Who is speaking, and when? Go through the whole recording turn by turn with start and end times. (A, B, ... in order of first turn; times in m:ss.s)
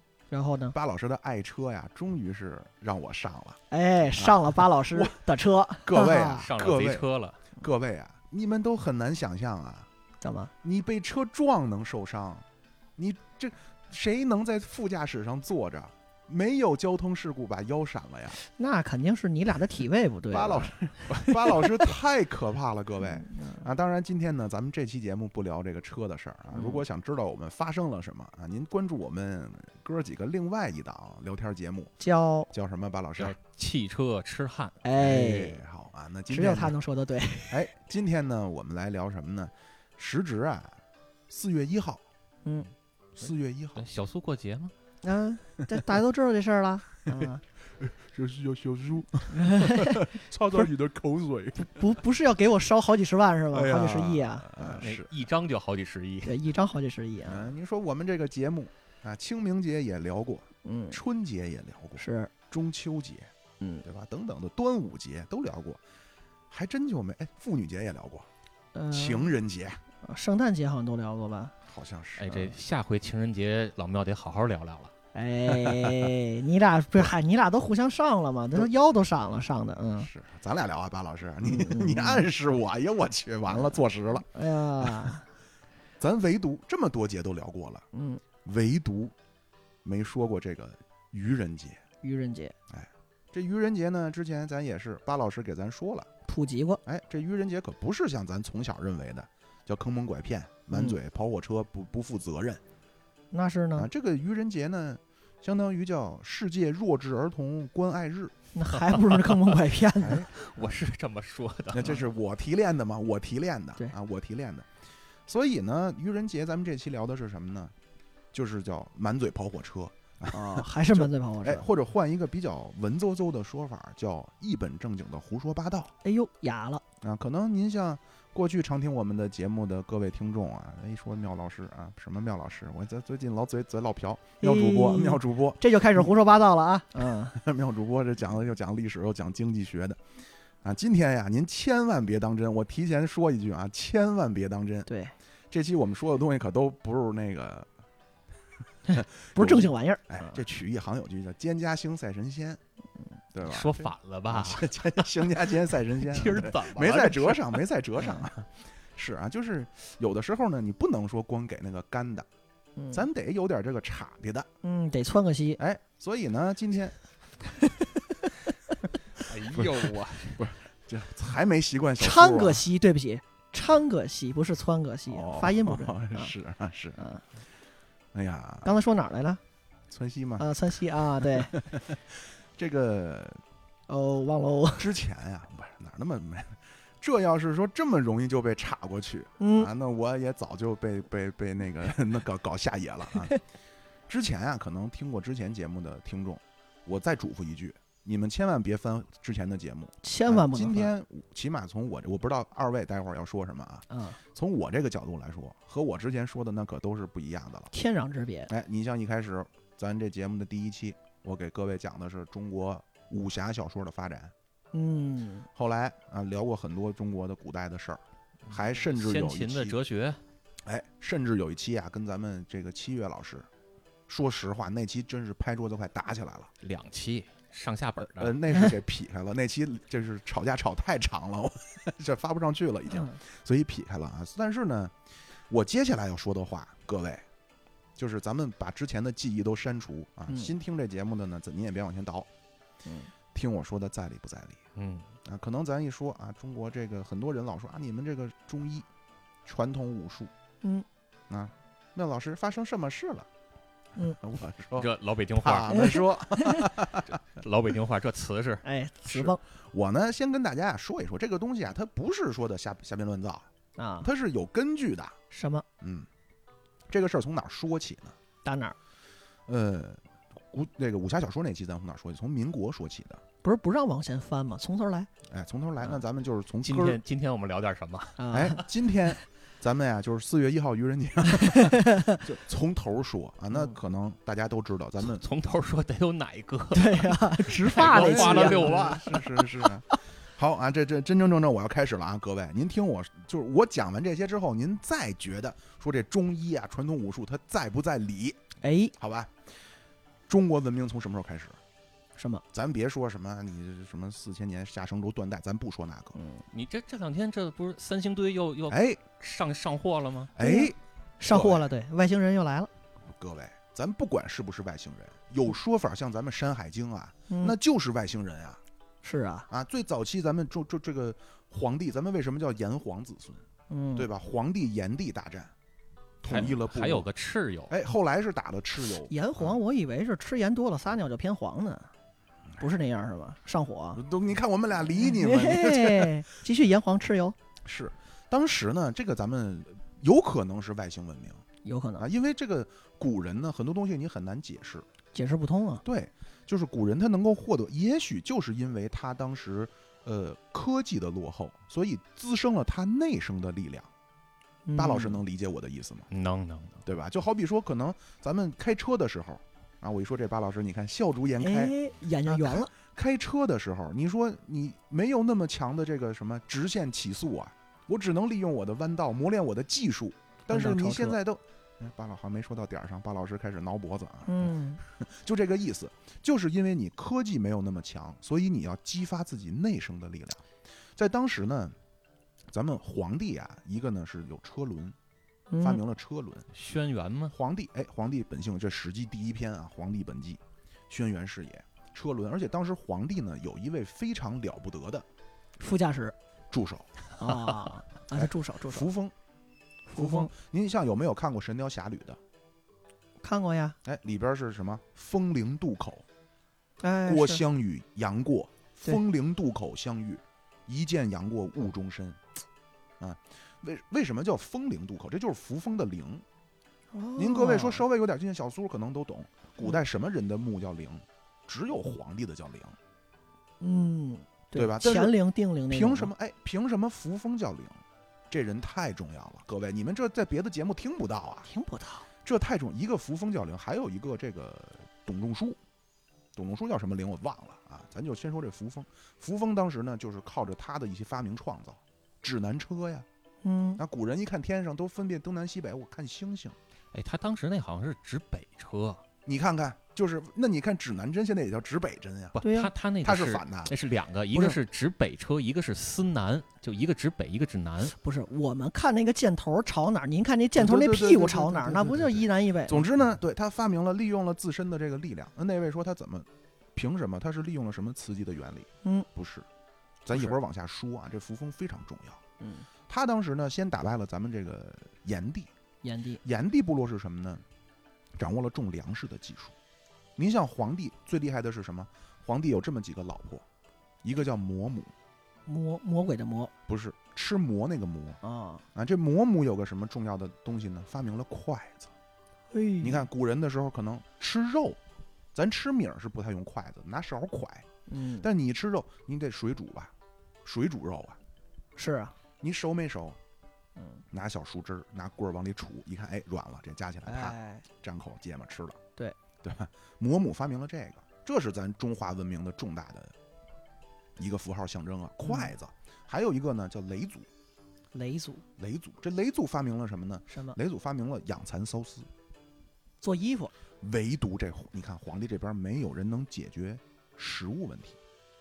0:00.3-0:00.8 A
0:00.7-0:03.6 B
0:03.7-0:06.5 A
0:04.2-0:05.2 B
0:05.8-0:09.9 B
0:06.4-0:07.4 C
0:10.2-0:10.5 A
0:10.6-0:12.5 B
0:13.0-0:18.4 B
0:18.4-0:21.9 A
0:20.3-0:31.9 B
0:23.1-0:23.6 A
0:26.5-0:26.8 A
0:32.0-0:32.5 A
0:32.5-0:33.4 B
0:33.2-0:34.8 C
0:34.8-0:35.6 A
0:35.0-0:36.8 B
0:36.3-0:37.6 A
0:37.5-0:42.0 B
0:43.2-0:43.9 B
0:43.8-0:44.7 C
0:45.0-0:47.4 A
0:47.8-0:51.9 B
0:49.3-0:50.0 A
0:51.6-0:54.8 A
0:53.5-0:55.1 B
0:54.7-0:56.4 C
0:56.2-0:57.5 A
0:57.2-1:03.3 B
1:00.6-1:01.0 A
1:02.0-1:02.3 A
1:03.6-1:03.8 A
1:03.8-1:05.8 B
1:06.5-1:08.3 B
1:08.7-1:09.3 A
1:08.9-1:09.8 B
1:10.0-1:11.5 A
1:11.7-1:12.6 B
1:12.2-1:14.9 C
1:15.1-1:20.1 A
1:15.5-1:16.1 B
1:20.0-1:24.3 B
1:21.4-1:22.3 A
1:23.5-1:23.8 A
1:24.3-1:25.3 A
1:24.8-1:25.1 B
1:26.0-1:27.9 B
1:27.9-1:28.2 A
1:28.4-1:29.1 B
1:29.8-1:31.8 B
1:32.0-1:32.6 A
1:32.7-1:36.1 B
1:36.3-1:36.8 A
1:36.8-1:42.6 B
1:40.7-1:41.0 A
1:43.3-1:43.9 A
1:43.8-1:48.3 B
1:48.6-1:50.2 A
1:48.7-1:49.6 C
1:50.0-1:50.8 B
1:50.3-1:52.0 C
1:51.7-1:54.7 B
1:55.3-1:57.7 B
1:58.3-2:06.0 B
2:00.3-2:01.7 A
2:06.0-2:06.8 A
2:07.0-2:16.1 B
2:14.4-2:17.4 A
2:17.3-2:20.0 B
2:20.6-2:24.9 B
2:24.9-2:25.1 A
2:25.5-2:27.7 B
2:28.9-2:32.6 B
2:29.3-2:30.4 A
2:33.3-2:42.3 B
2:33.4-2:37.6 C
2:42.8-2:43.1 A
2:42.9-2:44.5 B
2:44.6-2:45.6 A
2:45.6-2:47.0 B
2:47.7-2:48.3 A
2:49.2-2:50.5 C
2:49.5-2:52.7 B
2:52.0-2:56.3 A
2:55.1-2:57.0 B
2:57.0-2:57.2 A
2:58.1-2:58.7 B
2:58.6-2:59.4 A
2:59.9-3:00.5 B
3:00.4-3:01.6 A
3:01.2-3:03.4 B
3:03.9-3:04.9 A
3:04.8-3:13.4 B
3:09.4-3:09.7 A
3:14.1-3:27.7 B
3:20.0-3:20.9 A
3:23.9-3:24.2 A
3:27.7-3:28.5 A
3:28.5-3:34.3 B
3:34.7-3:35.5 A
3:35.6-3:39.8 B
3:38.5-3:40.2 C
3:40.6-3:43.5 B
3:44.1-3:46.5 B
3:46.6-3:48.4 C
3:48.0-3:55.0 B
3:52.9-3:53.2 A
3:55.5-3:57.2 B
3:58.0-4:02.3 B
4:02.8-4:03.1 A
4:03.3-4:04.6 B
4:04.8-4:05.1 C
4:05.2-4:08.9 B
4:09.4-4:10.3 B
4:11.3-4:13.3 B
4:14.2-4:17.2 B
4:14.8-4:15.8 C
4:15.7-4:16.7 A
4:17.3-4:18.6 C
4:18.6-4:19.4 A
4:19.1-4:23.5 B
4:23.8-4:24.1 A
4:24.0-4:25.2 B
4:25.3-4:25.6 A
4:25.8-4:26.1 B
4:26.9-4:28.2 B
4:28.4-4:28.8 A
4:29.5-4:33.2 B
4:33.4-4:35.1 A
4:35.3-4:37.0 B
4:36.6-4:38.2 C
4:38.2-4:38.6 A
4:38.3-4:45.2 B
4:41.3-4:42.2 A
4:45.0-4:49.1 C
4:46.7-4:49.3 A
4:47.6-4:58.4 B
4:58.6-4:58.9 A
4:59.0-4:59.4 B
5:00.3-5:01.6 B
5:02.2-5:02.4 A
5:02.5-5:06.2 B
5:06.2-5:06.4 A
5:06.5-5:10.3 C
5:08.7-5:09.0 B
5:10.4-5:11.7 B
5:10.4-5:12.7 A
5:13.1-5:18.6 B
5:17.3-5:17.6 A
5:19.0-5:19.5 A
5:19.5-5:23.4 B
5:23.7-5:24.1 A
5:24.0-5:25.5 B
5:26.2-5:27.1 B
5:26.2-5:27.7 C
5:27.7-5:29.5 B
5:29.1-5:31.9 A
5:32.6-5:34.0 A
5:34.0-5:36.2 B
5:34.8-5:37.4 A
5:37.6-5:41.4 B
5:41.6-5:42.1 A
5:42.0-5:44.8 B
5:45.1-5:45.8 A
5:45.8-5:53.9 B
5:54.7-5:55.2 A
5:54.8-5:56.1 B
5:56.1-5:56.8 C
5:56.8-6:20.4 B
6:01.4-6:02.7 A
6:10.5-6:11.2 A
6:14.3-6:14.8 A
6:21.0-6:21.8 B
6:22.5-6:25.0 B
6:25.5-6:25.8 A
6:25.6-6:26.5 B
6:26.5-6:27.3 C
6:27.3-6:35.1 B
6:35.6-6:36.2 A
6:36.5-6:36.9 B
6:37.2-6:38.9 A
6:38.1-6:39.1 B
6:39.9-6:40.3 A
6:40.0-6:42.2 B
6:43.2-6:43.8 A
6:43.8-6:46.0 B
6:46.8-6:47.4 A
6:47.1-6:52.2 B
6:53.0-6:56.2 B
6:56.9-6:57.8 A
6:57.2-7:02.8 B
7:03.6-7:06.1 A
7:04.5-7:05.2 B
7:05.7-7:11.5 B
7:11.5-7:12.1 A
7:12.2-7:15.6 B
7:16.4-7:23.1 B
7:23.4-7:23.8 A
7:23.8-7:26.6 B
7:26.9-7:29.0 C
7:29.3-7:32.4 B
7:32.4-7:38.0 C
7:32.4-7:32.7 A
7:33.0-7:33.8 B
7:37.9-7:42.9 A
7:40.6-7:49.5 B
7:50.0-7:52.2 B
7:52.4-7:52.7 A
7:52.9-7:55.5 B
7:55.8-7:56.2 A
7:56.2-7:57.4 B
7:58.2-7:59.6 B
8:00.2-8:03.4 B
8:04.0-8:04.9 B
8:05.5-8:06.5 A
8:06.7-8:08.2 B
8:08.2-8:08.6 A
8:08.8-8:11.9 B
8:12.5-8:13.1 A
8:12.8-8:14.8 B
8:15.3-8:17.7 B
8:17.9-8:18.3 A
8:18.2-8:19.9 B
8:20.4-8:21.2 B
8:21.8-8:22.2 A
8:22.4-8:23.2 B
8:24.1-8:28.8 B
8:27.1-8:27.6 A
8:29.4-8:33.2 B
8:34.2-8:37.3 B
8:35.2-8:35.5 A
8:37.9-8:38.4 A
8:38.6-8:42.1 B
8:40.3-8:40.6 A
8:43.0-8:43.5 A
8:43.8-8:48.0 B